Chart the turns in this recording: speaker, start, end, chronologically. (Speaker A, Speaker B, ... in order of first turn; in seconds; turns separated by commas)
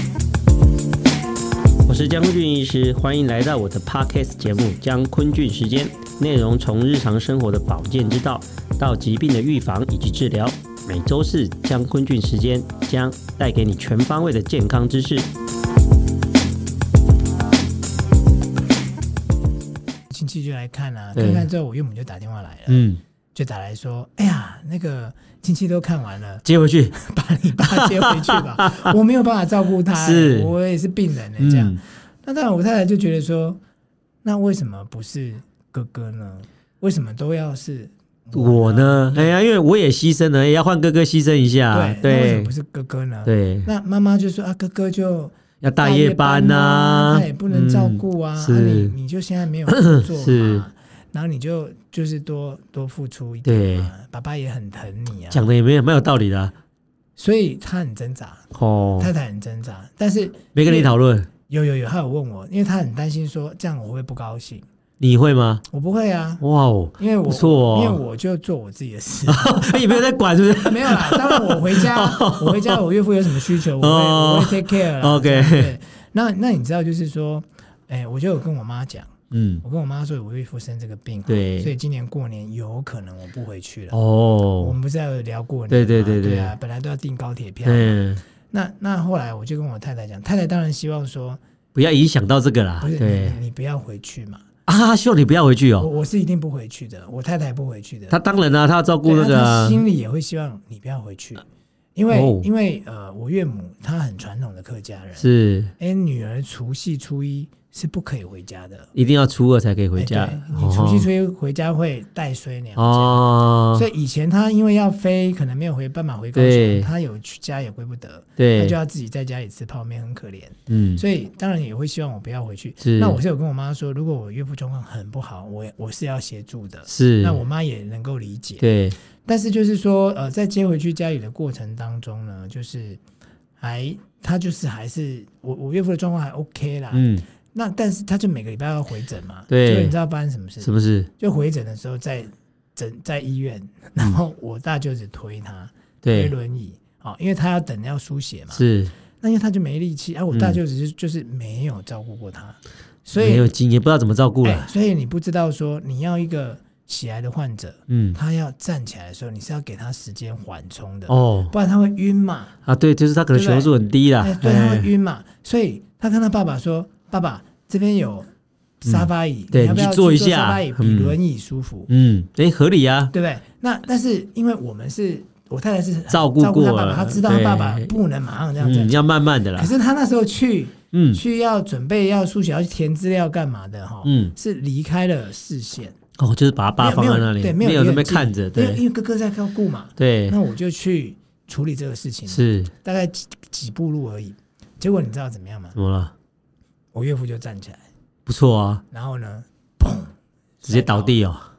Speaker A: 1.9-15.3, Speaker B: 20.1-33.6, Speaker C: 21.1-21.5, Speaker C: 22.7-23.0, Speaker C: 26.4-26.9, Speaker C: 27.7-28.9, Speaker C: 29.9-30.5, Speaker C: 31.4-31.8, Speaker B: 34.2-39.4, Speaker C: 38.3-42.5, Speaker B: 41.7-55.5, Speaker C: 43.2-43.7, Speaker C: 45.6-48.9, Speaker C: 49.7-50.7, Speaker C: 53.4-53.9, Speaker C: 55.3-56.5, Speaker B: 57.2-58.4, Speaker C: 58.5-59.1, Speaker B: 59.0-60.9, Speaker C: 60.5-61.3, Speaker B: 61.5-64.7, Speaker C: 65.0-65.6, Speaker B: 65.7-66.4, Speaker C: 66.4-68.0, Speaker B: 67.0-79.1, Speaker C: 69.3-72.8, Speaker C: 73.8-75.7, Speaker C: 79.3-79.6, Speaker B: 79.6-84.0, Speaker C: 81.3-81.7, Speaker C: 83.9-84.8, Speaker B: 84.6-91.4, Speaker C: 85.7-86.5, Speaker C: 87.6-88.2, Speaker C: 91.7-93.4, Speaker B: 92.8-94.4, Speaker C: 94.7-95.9, Speaker B: 95.8-98.2, Speaker C: 98.1-99.8, Speaker B: 99.0-101.4, Speaker B: 102.0-105.3, Speaker C: 102.1-102.5, Speaker C: 105.2-105.7, Speaker B: 105.8-108.9, Speaker C: 108.9-111.1, Speaker B: 110.0-128.7, Speaker C: 112.8-113.9, Speaker C: 116.3-116.9, Speaker C: 118.4-118.8, Speaker C: 120.7-121.0, Speaker C: 122.8-123.2, Speaker C: 126.9-127.4, Speaker C: 128.6-129.0, Speaker B: 129.2-133.0, Speaker B: 133.6-148.6, Speaker C: 136.9-137.2, Speaker C: 139.5-139.9, Speaker C: 140.6-141.1, Speaker C: 146.0-146.3, Speaker C: 148.5-148.9, Speaker B: 149.2-153.5, Speaker C: 150.3-150.6, Speaker C: 153.2-154.7, Speaker B: 154.4-162.5, Speaker C: 157.9-158.2, Speaker C: 161.1-161.5, Speaker C: 162.7-164.9, Speaker B: 163.3-168.3, Speaker B: 168.8-171.9, Speaker C: 168.9-171.2, Speaker C: 171.9-173.1, Speaker B: 173.1-185.9, Speaker C: 176.1-177.9, Speaker C: 178.6-179.7, Speaker C: 180.9-181.2, Speaker C: 184.0-184.3, Speaker C: 186.2-188.8, Speaker B: 186.8-195.8, Speaker C: 190.0-190.4, Speaker C: 192.3-192.7, Speaker C: 195.7-196.1, Speaker B: 196.9-197.8, Speaker C: 198.2-198.8, Speaker B: 198.9-201.2, Speaker C: 200.7-201.4